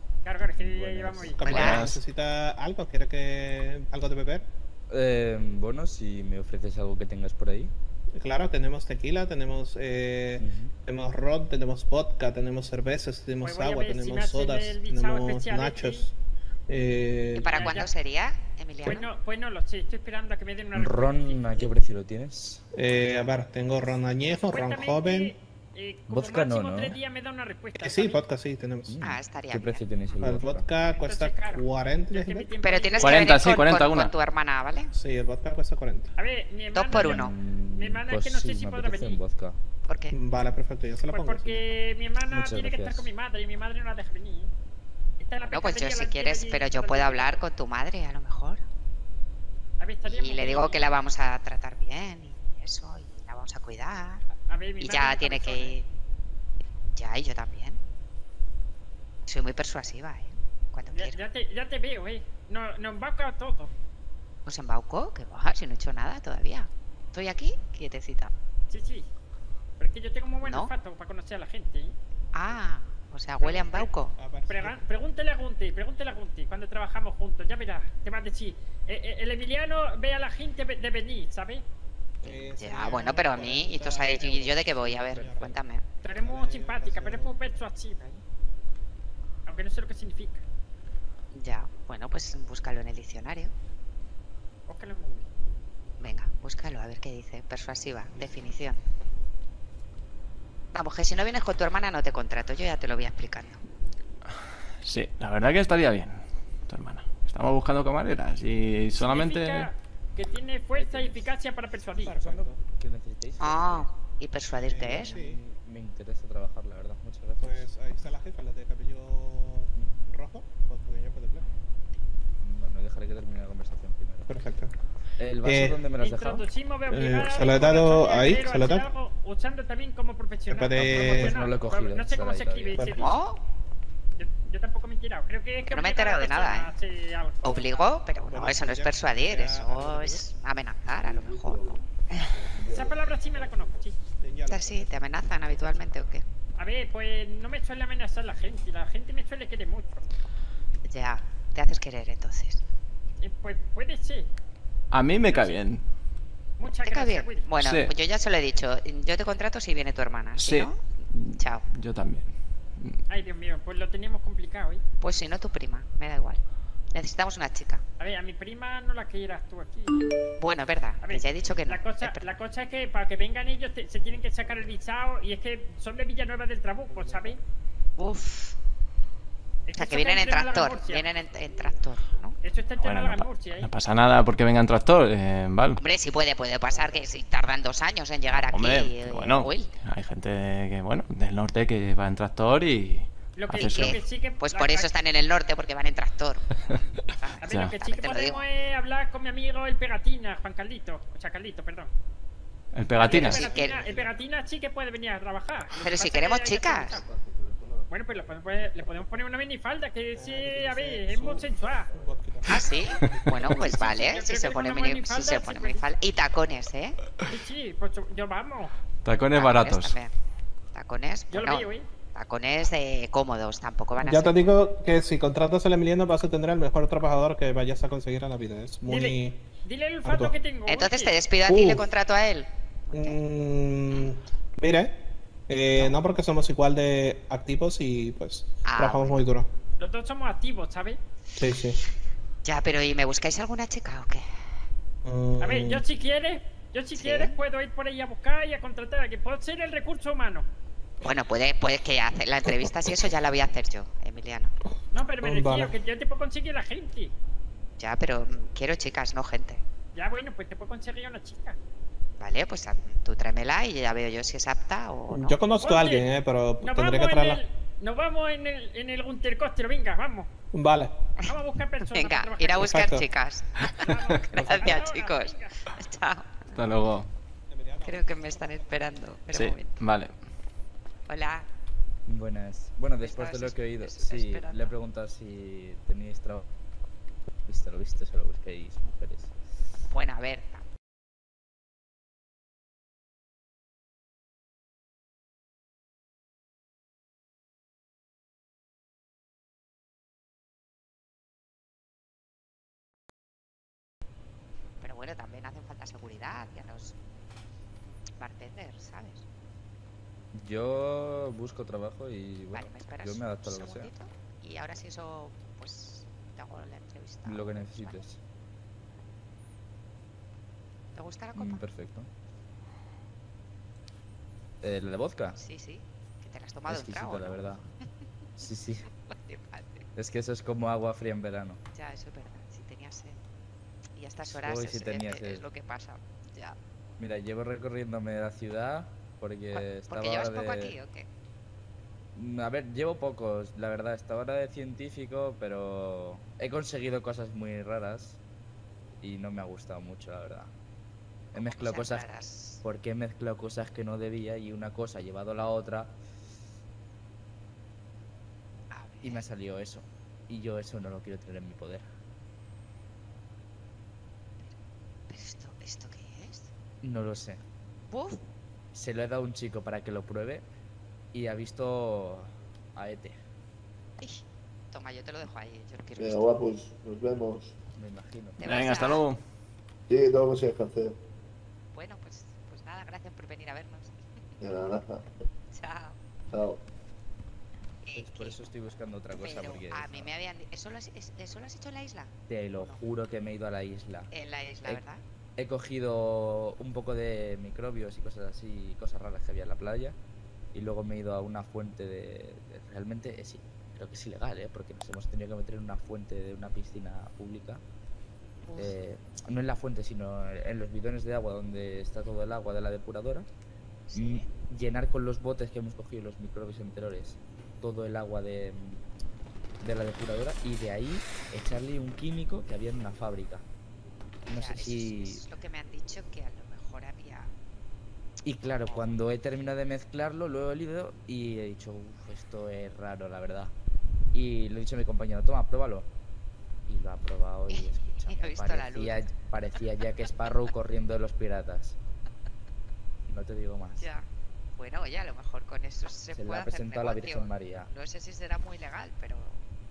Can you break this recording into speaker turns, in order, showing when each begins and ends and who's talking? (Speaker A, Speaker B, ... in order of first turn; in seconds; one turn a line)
Speaker A: 0.2-1.8
Speaker B: 0.6-2.0
Speaker C: 1.3-4.5
Speaker D: 1.4-1.9
Speaker B: 4.9-7.7
Speaker C: 8.2-16.1
Speaker B: 10.4-10.7
Speaker A: 13.4-16.1
Speaker C: 16.7-17.7
Speaker D: 17.3-19.1
Speaker A: 17.5-17.9
Speaker A: 18.9-21.7
Speaker B: 20.8-22.6
Speaker C: 22.8-25.4
Speaker A: 24.5-28.2
Speaker B: 26.1-27.0
Speaker C: 27.8-29.0
Speaker B: 28.9-30.7
Speaker D: 29.0-29.9
Speaker C: 30.2-32.5
Speaker A: 31.0-33.4
Speaker D: 32.6-34.9
Speaker E: 33.0-34.1
Speaker C: 34.9-36.1
Speaker A: 36.2-39.2
Speaker D: 36.7-37.3
Speaker B: 37.0-39.6
Speaker D: 39.9-40.2
Speaker C: 40.1-41.6
Speaker A: 41.1-44.5
Speaker B: 42.3-43.1
Speaker A: 45.2-47.4
Speaker D: 45.5-48.6
Speaker A: 49.8-50.8
Speaker D: 50.0-54.2
Speaker A: 54.5-55.8
Speaker D: 54.8-55.9
Speaker D: 56.9-57.8
Speaker D: 59.3-61.2
Speaker A: 60.9-63.7
Speaker D: 64.5-68.3
Speaker A: 68.7-69.1
Speaker A: 69.8-72.0
Speaker D: 70.4-70.7
Speaker D: 72.3-74.2
Speaker A: 73.4-73.9
Speaker C: 74.2-74.8
Speaker A: 74.5-81.6
Speaker C: 82.2-85.6
Speaker D: 82.2-85.8
Speaker A: 86.0-88.2
Speaker C: 86.2-87.3
Speaker A: 89.5-90.4
Speaker D: 91.3-93.5
Speaker A: 94.7-95.3
Speaker D: 96.0-98.8
Speaker D: 100.7-103.6
Speaker E: 104.8-109.7
Speaker A: 109.0-112.2
Speaker B: 110.8-111.3
Speaker B: 111.9-113.9
Speaker C: 112.0-112.6
Speaker D: 113.4-115.2
Speaker C: 114.7-115.4
Speaker B: 114.9-117.7
Speaker C: 117.4-121.5
Speaker B: 119.8-120.0
Speaker B: 122.4-124.3
Speaker C: 124.3-124.7
Speaker B: 125.2-126.5
Speaker C: 125.5-125.8
Speaker A: 126.0-133.2
Speaker C: 126.9-128.9
Speaker C: 130.5-131.4
Speaker B: 130.7-132.9
Speaker C: 132.8-133.2
Speaker D: 132.9-133.4
Speaker A: 134.2-137.8
Speaker D: 135.7-136.7
Speaker D: 137.4-142.3
Speaker C: 138.2-140.2
Speaker F: 141.0-143.9
Speaker A: 142.7-144.0
Speaker C: 144.2-144.9
Speaker D: 144.5-146.2
Speaker A: 146.6-150.1
Speaker D: 150.8-152.6
Speaker A: 153.2-154.3
Speaker E: 154.9-155.8
Speaker A: 155.3-155.6
Speaker A: 156.6-157.5
Speaker D: 156.8-160.8
Speaker E: 157.6-157.9
Speaker E: 160.4-163.0
Speaker D: 161.3-161.7
Speaker A: 163.1-164.8
Speaker D: 165.0-166.4
Speaker D: 166.9-167.8
Speaker A: 168.0-170.0
Speaker D: 170.4-172.3
Speaker A: 171.0-177.4
Speaker D: 178.0-178.6
Speaker A: 179.7-181.1
Speaker D: 179.8-182.4
Speaker A: 182.4-183.7
Speaker E: 182.8-185.8
Speaker D: 185.8-189.7
Speaker E: 188.5-194.0
Speaker A: 193.4-194.9
Speaker D: 193.5-198.5
Speaker A: 197.4-201.9
Speaker E: 197.4-197.7
Speaker E: 202.7-203.5
Speaker A: 203.0-207.1
Speaker D: 203.0-203.8
Speaker C: 203.2-204.1
Speaker D: 205.8-207.0
Speaker F: 207.0-207.9
Speaker A: 207.9-211.9
Speaker C: 210.2-213.6
Speaker D: 212.5-217.0
Speaker E: 213.0-213.5
Speaker A: 213.6-215.8
Speaker A: 217.2-218.7
Speaker E: 219.1-220.0
Speaker D: 219.3-220.1
Speaker D: 220.7-224.4
Speaker A: 221.3-221.9
Speaker C: 224.0-229.4
Speaker A: 228.9-231.2
Speaker C: 230.1-230.3
Speaker D: 230.7-233.2
Speaker C: 231.5-231.9
Speaker C: 232.9-239.5
Speaker D: 238.7-239.2
Speaker A: 239.8-241.0
Speaker C: 241.4-241.8
Speaker D: 242.4-244.2
Speaker C: 245.1-245.8
Speaker A: 245.4-250.5
Speaker D: 247.0-247.3
Speaker D: 251.0-254.5
Speaker A: 254.9-257.1
Speaker C: 255.2-255.8
Speaker D: 257.8-259.6
Speaker A: 259.9-261.6
Speaker D: 262.2-265.4
Speaker C: 265.1-267.4
Speaker A: 265.6-266.1
Speaker A: 266.6-270.3
Speaker C: 270.5-270.9
Speaker A: 271.2-272.7
Speaker D: 271.9-276.6
Speaker C: 272.6-273.1
Speaker A: 273.7-275.6
Speaker C: 274.5-274.8
Speaker E: 276.6-277.1
Speaker C: 277.5-279.0
Speaker D: 277.8-279.8
Speaker E: 279.3-280.1
Speaker D: 281.1-281.5
Speaker B: 282.1-286.5
Speaker D: 283.0-284.7
Speaker B: 287.5-289.3
Speaker D: 289.9-290.6
Speaker D: 304.8-307.0
Speaker D: 308.2-309.2
Speaker B: 310.3-313.9
Speaker D: 312.5-318.0
Speaker B: 317.2-318.2
Speaker D: 320.9-321.6
Speaker B: 321.4-322.1
Speaker B: 324.6-325.4
Speaker D: 325.4-327.6
Speaker B: 326.7-327.6
Speaker B: 328.4-328.9
Speaker D: 329.1-329.9
Speaker B: 330.0-331.6
Speaker D: 331.7-333.2
Speaker D: 334.0-336.6
Speaker B: 334.4-335.4
Speaker B: 337.0-340.8
Speaker D: 339.5-341.1
Speaker B: 342.1-348.2
Speaker B: 349.0-350.5
Speaker D: 351.3-352.6
Speaker B: 351.4-352.1
Speaker B: 352.6-356.0
Speaker D: 358.7-359.3
Speaker B: 359.0-361.9
Speaker D: 365.1-366.5
Speaker B: 366.8-367.4
Speaker D: 367.9-368.3
Speaker B: 368.7-370.5
Speaker B: 371.1-373.2
Speaker D: 374.0-376.4
Speaker F: 376.0-377.5
Speaker B: 377.8-378.5
Speaker D: 378.4-379.0
Speaker E: 378.4-379.2
Speaker F: 379.9-381.0
Speaker D: 381.7-383.9
Speaker F: 384.4-385.1
Speaker D: 385.5-386.0
Speaker F: 386.3-386.6
Speaker D: 387.8-388.4
Speaker B: 388.0-390.1
Speaker D: 389.1-392.8
Speaker B: 392.3-394.1
Speaker D: 394.1-395.0
Speaker B: 395.4-400.0
Speaker B: 400.5-407.6
Speaker D: 408.4-408.8
Speaker B: 408.6-413.3
Speaker D: 413.9-414.3
Speaker B: 413.9-418.8
Speaker B: 419.6-423.4
Speaker B: 424.3-425.2
Speaker D: 424.3-427.3
Speaker B: 428.2-433.5
Speaker D: 428.6-429.0
Speaker B: 434.1-435.9
Speaker B: 436.7-441.8
Speaker D: 437.5-439.1
Speaker B: 443.1-443.9
Speaker D: 443.8-444.1
Speaker D: 444.6-449.4
Speaker B: 446.1-447.7